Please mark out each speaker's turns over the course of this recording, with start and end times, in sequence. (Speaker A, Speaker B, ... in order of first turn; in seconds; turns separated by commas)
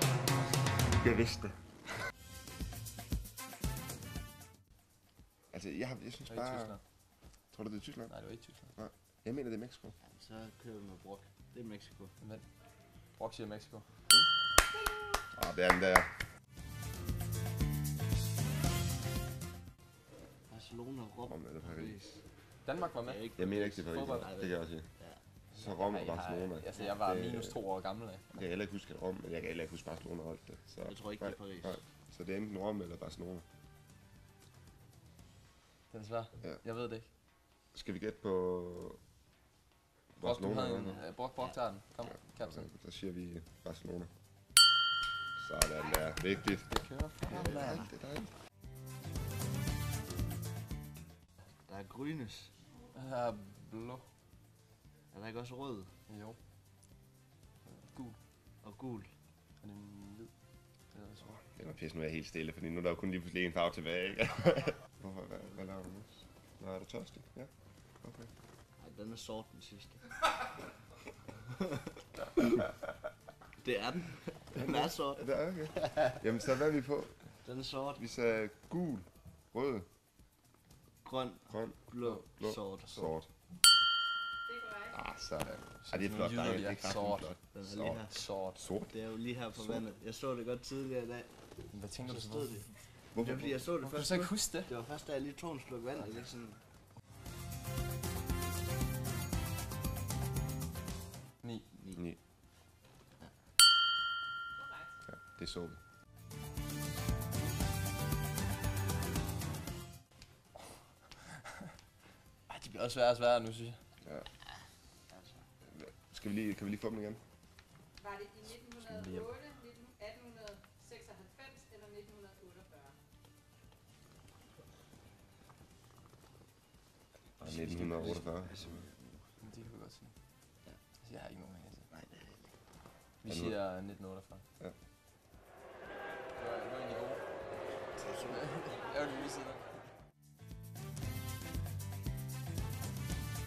Speaker A: 0.8-1.8, Speaker A: 5.5-6.8, Speaker B: 6.3-6.8, Speaker A: 7.5-9.9, Speaker B: 8.1-8.7, Speaker C: 10.0-12.1, Speaker B: 12.2-12.5, Speaker B: 13.2-13.9, Speaker A: 15.3-16.1, Speaker C: 20.5-22.2, Speaker A: 21.3-22.0, Speaker B: 22.6-24.3, Speaker C: 23.0-25.2, Speaker A: 23.4-24.9, Speaker B: 25.5-28.3, Speaker A: 25.6-27.6, Speaker A: 28.3-33.5, Speaker C: 30.8-31.8, Speaker B: 35.9-37.1, Speaker A: 37.7-39.0, Speaker A: 40.2-41.0, Speaker B: 40.2-42.7, Speaker A: 42.4-44.1, Speaker A: 45.4-46.7, Speaker B: 46.6-47.8, Speaker A: 47.3-48.3, Speaker C: 47.3-47.9, Speaker C: 51.7-52.5, Speaker B: 52.9-54.0, Speaker C: 55.1-55.9, Speaker B: 56.1-56.4, Speaker B: 57.7-58.2, Speaker C: 58.6-59.1, Speaker B: 59.6-60.3, Speaker B: 60.9-61.3, Speaker A: 61.2-67.5, Speaker C: 65.4-65.8, Speaker A: 68.0-68.3, Speaker C: 68.8-70.2, Speaker C: 73.6-75.3, Speaker A: 74.6-77.3, Speaker C: 77.4-78.0, Speaker A: 78.0-79.9, Speaker C: 81.0-83.0, Speaker A: 81.5-83.3, Speaker B: 82.9-83.1, Speaker A: 84.9-88.9, Speaker B: 85.4-87.4, Speaker C: 87.4-88.2, Speaker B: 88.1-88.6, Speaker C: 88.9-91.4, Speaker A: 89.6-89.8, Speaker B: 91.7-92.8, Speaker C: 92.0-96.6, Speaker A: 93.1-93.7, Speaker B: 93.8-94.7, Speaker B: 101.4-101.7, Speaker C: 101.8-102.0, Speaker A: 105.1-105.8, Speaker B: 112.5-113.8, Speaker A: 115.7-117.2, Speaker D: 118.0-118.3, Speaker B: 118.4-119.6, Speaker D: 119.7-122.9, Speaker A: 127.4-128.8, Speaker C: 127.5-129.3, Speaker B: 129.4-130.1, Speaker B: 131.0-131.9, Speaker C: 131.9-132.6, Speaker B: 133.2-134.4, Speaker A: 133.2-133.6, Speaker B: 136.3-137.2, Speaker C: 138.0-138.7, Speaker B: 138.2-139.7